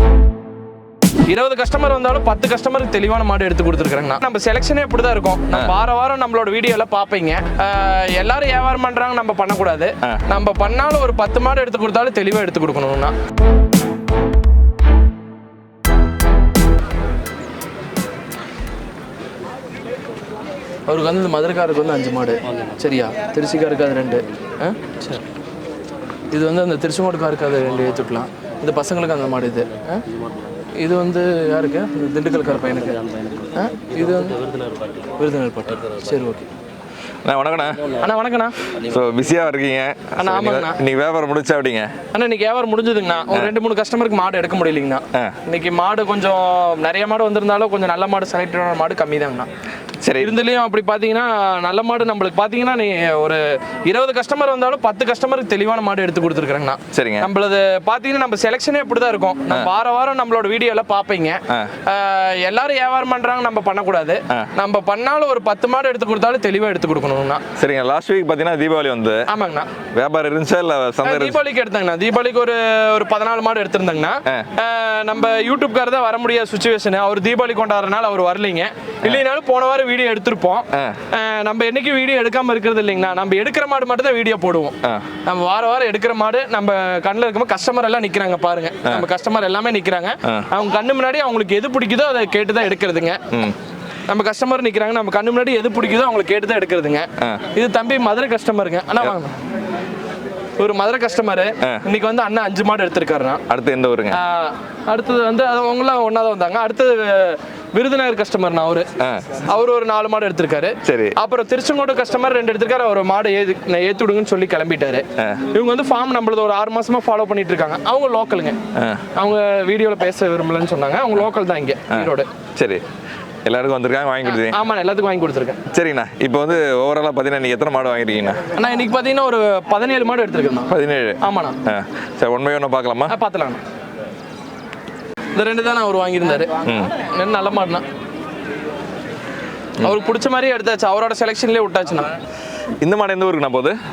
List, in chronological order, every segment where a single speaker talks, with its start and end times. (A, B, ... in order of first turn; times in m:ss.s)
0:01.3-0:13.1 A
0:20.9-0:25.2 A
0:26.3-0:30.0 A
0:30.7-0:33.0 A
0:33.5-0:34.4 A
0:35.2-0:36.5 A
0:37.2-0:37.9 B
0:37.9-0:38.6 A
0:38.8-0:41.9 B
0:40.2-0:40.8 A
0:42.1-0:49.5 A
0:50.0-0:50.3 B
0:50.2-1:07.4 A
0:56.9-0:57.3 B
1:07.6-1:09.3 B
1:09.3-1:09.7 A
1:09.9-1:11.4 B
1:11.0-1:33.2 A
1:20.7-1:21.0 B
1:33.3-1:33.6 B
1:34.1-1:39.3 A
1:40.6-1:43.4 A
1:43.5-1:44.2 B
1:44.1-1:48.9 A
1:49.0-1:49.3 B
1:49.4-1:58.6 A
1:50.8-1:51.2 B
1:55.2-1:55.4 B
1:58.8-1:59.0 B
1:59.2-2:02.3 A
2:01.9-2:02.8 B
2:03.4-2:04.6 B
2:04.3-2:05.6 A
2:05.7-2:08.5 B
2:08.5-2:11.6 A
2:10.7-2:13.1 B
2:13.1-2:13.6 A
2:15.3-2:17.8 A
2:16.6-2:16.9 B
2:19.8-2:22.1 A
2:22.8-2:23.7 B